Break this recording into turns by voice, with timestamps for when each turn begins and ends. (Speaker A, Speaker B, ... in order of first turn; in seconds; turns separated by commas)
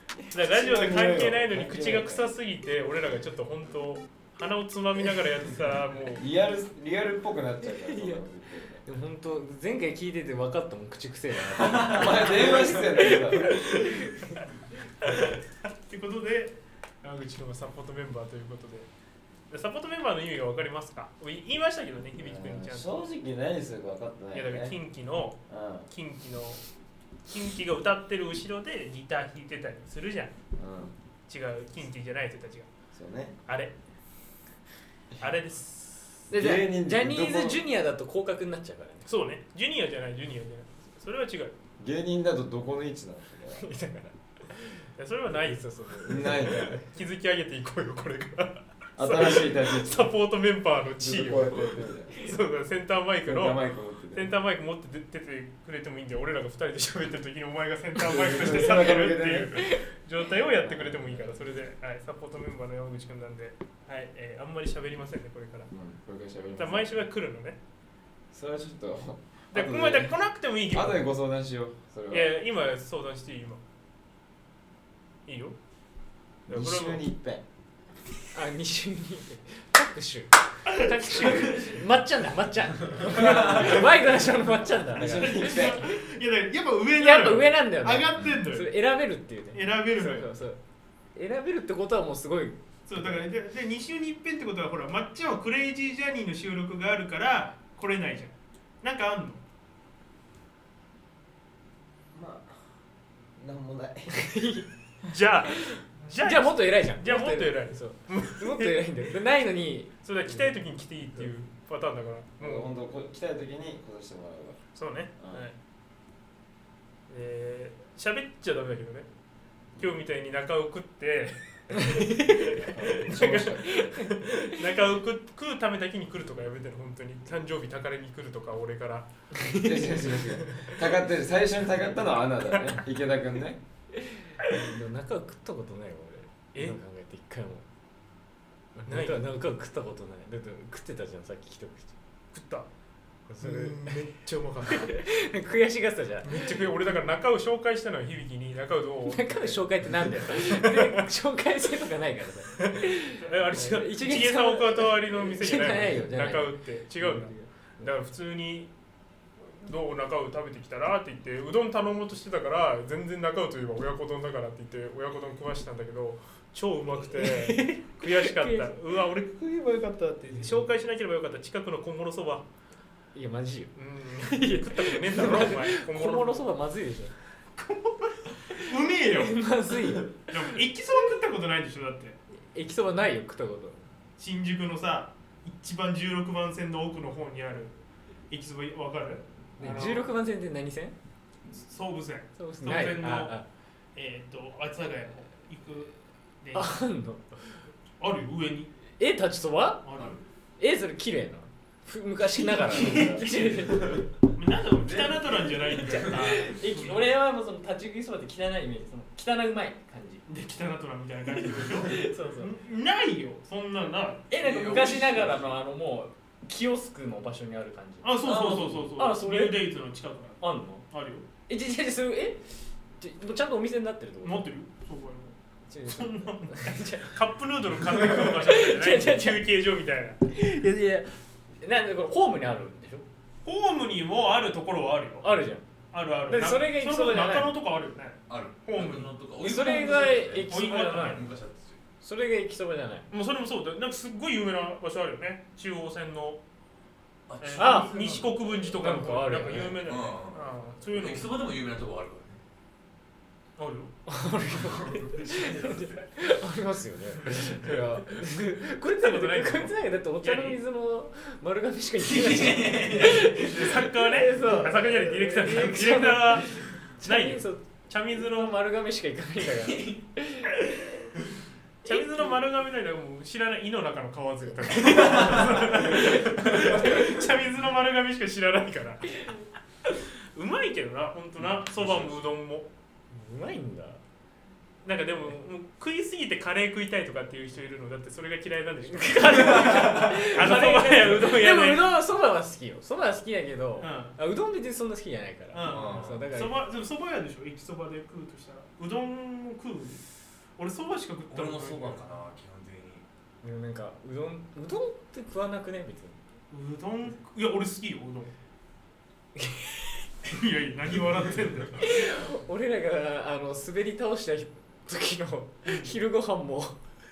Speaker A: 0.3-6.2, Speaker B: 0.4-2.3, Speaker B: 6.1-8.8, Speaker C: 7.6-8.2, Speaker C: 8.8-14.4, Speaker B: 11.7-13.6, Speaker A: 15.0-15.3, Speaker A: 15.9-18.9, Speaker A: 19.5-23.1, Speaker B: 22.1-24.8, Speaker A: 24.3-26.6, Speaker B: 25.5-25.9, Speaker A: 27.2-30.3, Speaker B: 30.6-30.9, Speaker A: 31.3-32.7, Speaker B: 32.9-33.4, Speaker A: 33.5-33.7, Speaker A: 35.2-36.1, Speaker C: 36.3-39.1, Speaker B: 36.3-37.6, Speaker A: 39.0-41.5, Speaker B: 41.8-43.7, Speaker C: 43.5-46.8, Speaker A: 45.0-45.6, Speaker B: 46.0-46.8, Speaker A: 46.9-53.6, Speaker B: 49.0-50.1, Speaker B: 51.0-52.3, Speaker B: 53.2-54.3, Speaker A: 54.1-65.7, Speaker B: 58.0-59.5, Speaker B: 60.5-61.5, Speaker B: 65.7-66.9, Speaker A: 66.5-67.6, Speaker B: 68.3-70.2, Speaker A: 69.5-71.0, Speaker B: 70.7-72.4, Speaker A: 72.1-73.6, Speaker A: 75.2-75.5, Speaker B: 76.5-77.4, Speaker A: 76.5-77.0, Speaker C: 78.3-85.8, Speaker A: 80.7-81.8, Speaker B: 83.1-84.2, Speaker B: 84.9-85.9, Speaker A: 85.0-88.7, Speaker C: 87.0-90.6, Speaker A: 89.5-90.3, Speaker C: 91.1-93.3, Speaker A: 92.9-99.4, Speaker B: 102.1-102.6, Speaker B: 103.3-104.6, Speaker C: 104.1-104.7, Speaker A: 105.0-108.9, Speaker C: 105.6-110.5, Speaker A: 110.0-112.7, Speaker B: 112.4-114.6, Speaker A: 114.7-115.5, Speaker B: 115.2-115.4, Speaker A: 117.1-119.1, Speaker A: 119.8-129.1, Speaker C: 121.8-122.6, Speaker B: 122.5-124.1, Speaker C: 123.8-124.7, Speaker C: 129.3-130.2, Speaker B: 129.6-133.6, Speaker C: 134.0-137.6, Speaker C: 138.8-141.9, Speaker A: 138.9-139.2, Speaker A: 142.3-142.7, Speaker C: 143.3-144.0, Speaker A: 143.4-145.0, Speaker C: 144.7-146.7, Speaker A: 146.2-149.6, Speaker C: 149.0-157.8, Speaker A: 150.3-151.0, Speaker A: 152.6-158.7, Speaker A: 159.4-172.4, Speaker C: 167.1-168.7, Speaker C: 170.3-170.6, Speaker C: 173.1-177.2, Speaker A: 173.8-176.5, Speaker A: 177.6-179.4, Speaker C: 178.5-180.6, Speaker A: 180.1-182.2, Speaker C: 182.5-183.8, Speaker A: 184.2-187.7, Speaker A: 188.3-190.1, Speaker C: 189.6-190.9, Speaker A: 191.5-193.3, Speaker C: 192.4-193.5, Speaker A: 193.9-196.8, Speaker C: 196.5-197.4, Speaker A: 198.0-198.7, Speaker C: 199.0-199.8, Speaker A: 199.8-200.2, Speaker D: 199.9-200.2, Speaker C: 200.6-204.1, Speaker A: 202.5-203.4, Speaker A: 204.3-207.0, Speaker C: 205.6-210.2, Speaker A: 210.3-214.2, Speaker C: 211.4-212.5, Speaker C: 214.3-219.7, Speaker D: 214.3-215.6, Speaker A: 218.0-221.2, Speaker D: 218.2-218.8, Speaker C: 220.4-220.8, Speaker C: 221.5-222.4, Speaker C: 223.0-224.5, Speaker A: 224.2-225.3, Speaker C: 225.7-227.2, Speaker A: 225.8-230.2, Speaker C: 227.8-229.5, Speaker C: 230.3-233.0, Speaker A: 233.4-235.3, Speaker C: 235.2-235.6, Speaker A: 235.9-241.2, Speaker C: 236.3-237.5, Speaker D: 238.3-241.8, Speaker C: 239.4-241.3, Speaker C: 242.0-243.1, Speaker A: 243.1-246.4, Speaker D: 247.3-248.2, Speaker A: 247.4-251.4, Speaker C: 247.6-249.8, Speaker D: 249.8-252.4, Speaker A: 253.6-253.9, Speaker C: 254.1-270.7, Speaker D: 254.7-256.2, Speaker A: 259.0-260.6, Speaker D: 262.0-263.4, Speaker A: 263.3-268.6, Speaker D: 269.6-270.0, Speaker A: 271.8-279.3, Speaker C: 271.9-272.4, Speaker C: 274.7-277.2, Speaker A: 279.9-282.7, Speaker D: 281.4-282.2, Speaker C: 283.1-284.0, Speaker A: 284.8-291.8, Speaker C: 288.9-296.6, Speaker D: 289.7-290.1, Speaker A: 293.8-294.1, Speaker A: 295.5-300.0, Speaker D: 295.7-296.2, Speaker A: 300.6-302.2, Speaker D: 301.3-303.1, Speaker C: 303.4-306.2, Speaker A: 306.5-308.3, Speaker C: 309.4-309.9, Speaker A: 310.2-311.9, Speaker C: 311.8-316.8